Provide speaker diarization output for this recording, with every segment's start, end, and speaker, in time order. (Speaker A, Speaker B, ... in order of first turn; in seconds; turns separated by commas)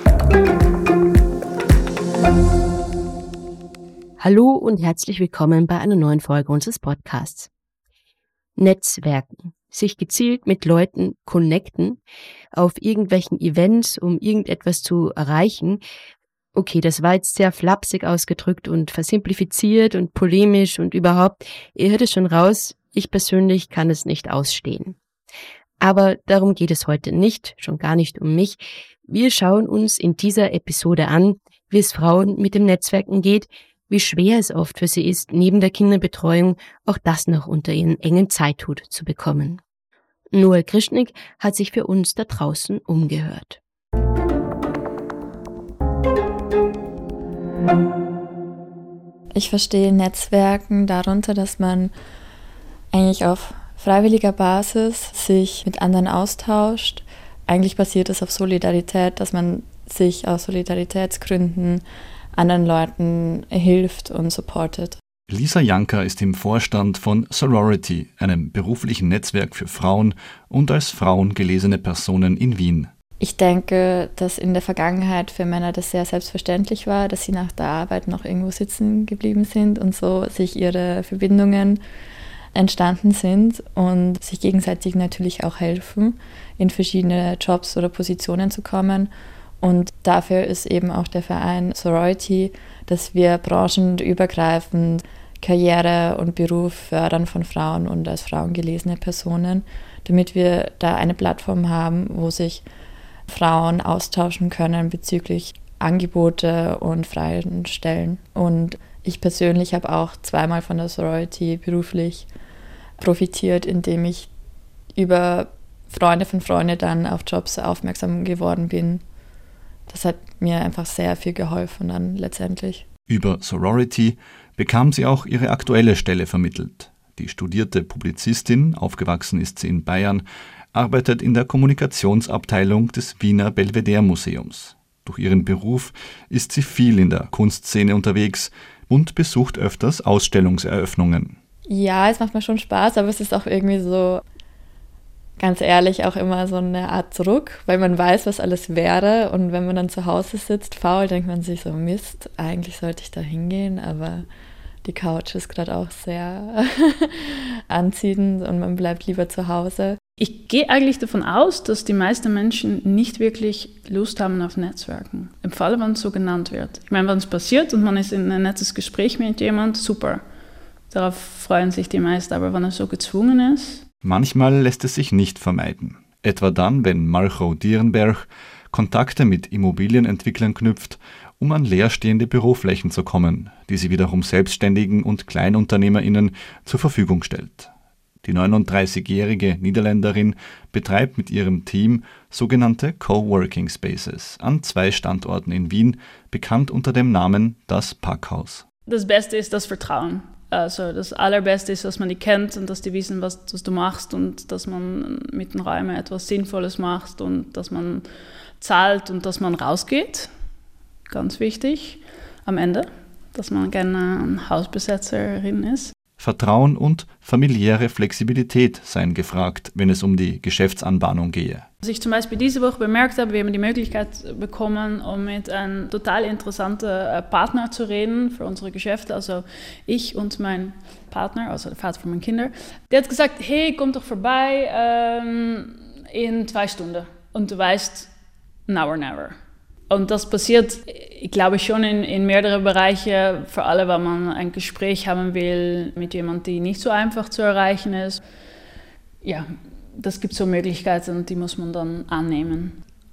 Speaker A: 4.2-7.5, Speaker A: 8.6-12.0, Speaker A: 12.5-15.8, Speaker A: 16.5-25.0, Speaker A: 25.8-39.6, Speaker A: 40.3-43.6, Speaker B: 49.3-51.9, Speaker B: 52.9-65.0, Speaker C: 65.3-72.9, Speaker B: 73.2-81.8, Speaker B: 82.5-89.1, Speaker B: 89.6-102.6, Speaker B: 103.3-112.3, Speaker B: 113.0-114.3, Speaker B: 114.9-119.0, Speaker B: 119.9-122.8, Speaker C: 123.1-141.3, Speaker B: 141.7-144.2, Speaker B: 145.4-154.3, Speaker B: 154.8-160.0, Speaker D: 160.2-170.2, Speaker D: 170.9-173.8, Speaker C: 174.0-187.7, Speaker C: 188.2-198.6, Speaker D: 198.9-208.0, Speaker D: 208.6-210.3, Speaker D: 211.1-215.9, Speaker C: 216.2-221.6, Speaker D: 221.8-238.1, Speaker D: 238.7-239.3, Speaker D: 239.9-248.2, Speaker D: 249.2-252.8